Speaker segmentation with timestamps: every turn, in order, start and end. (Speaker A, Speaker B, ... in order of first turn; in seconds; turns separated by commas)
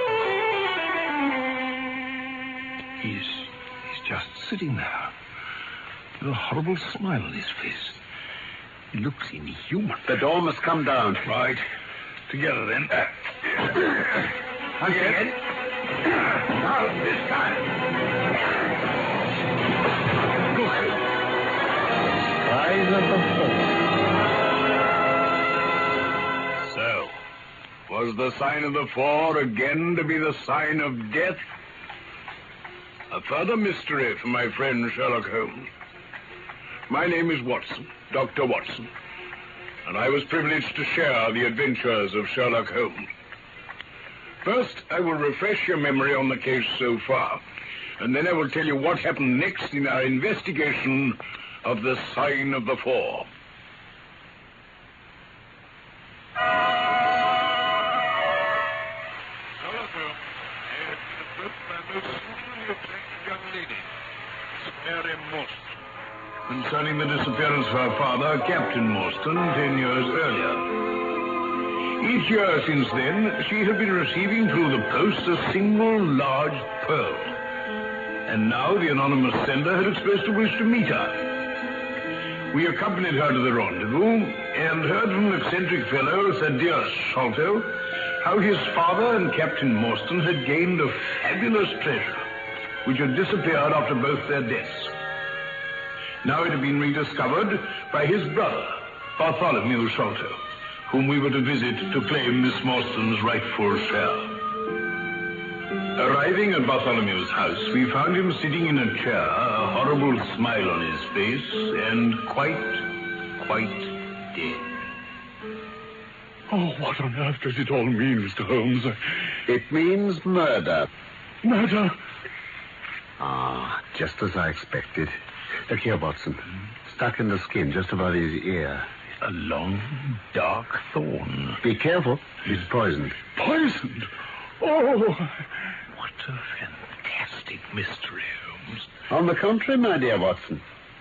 Speaker A: 3.0-5.1, Speaker A: 6.2-8.0, Speaker A: 8.9-10.1, Speaker B: 10.1-11.3, Speaker A: 11.3-11.6, Speaker A: 12.3-14.3, Speaker A: 14.8-15.4, Speaker A: 16.0-17.7, Speaker A: 20.5-21.0, Speaker B: 22.2-23.8, Speaker A: 26.6-27.1, Speaker A: 27.9-31.4, Speaker A: 33.1-35.7, Speaker A: 36.9-38.9, Speaker A: 39.9-43.1, Speaker A: 44.4-47.4, Speaker A: 48.0-53.3, Speaker A: 61.6-63.8, Speaker A: 64.8-65.4, Speaker A: 66.5-70.8, Speaker A: 72.0-77.3, Speaker A: 78.3-81.2, Speaker A: 82.5-92.2, Speaker A: 92.8-94.9, Speaker A: 96.2-104.4, Speaker A: 106.0-114.7, Speaker C: 116.5-119.0, Speaker B: 119.5-120.9, Speaker C: 121.4-122.0, Speaker B: 123.2-125.2, Speaker B: 125.7-128.9, Speaker A: 129.2-131.6, Speaker B: 131.6-133.2, Speaker C: 133.4-134.1, Speaker C: 134.6-135.4, Speaker A: 135.9-138.8, Speaker B: 139.1-140.6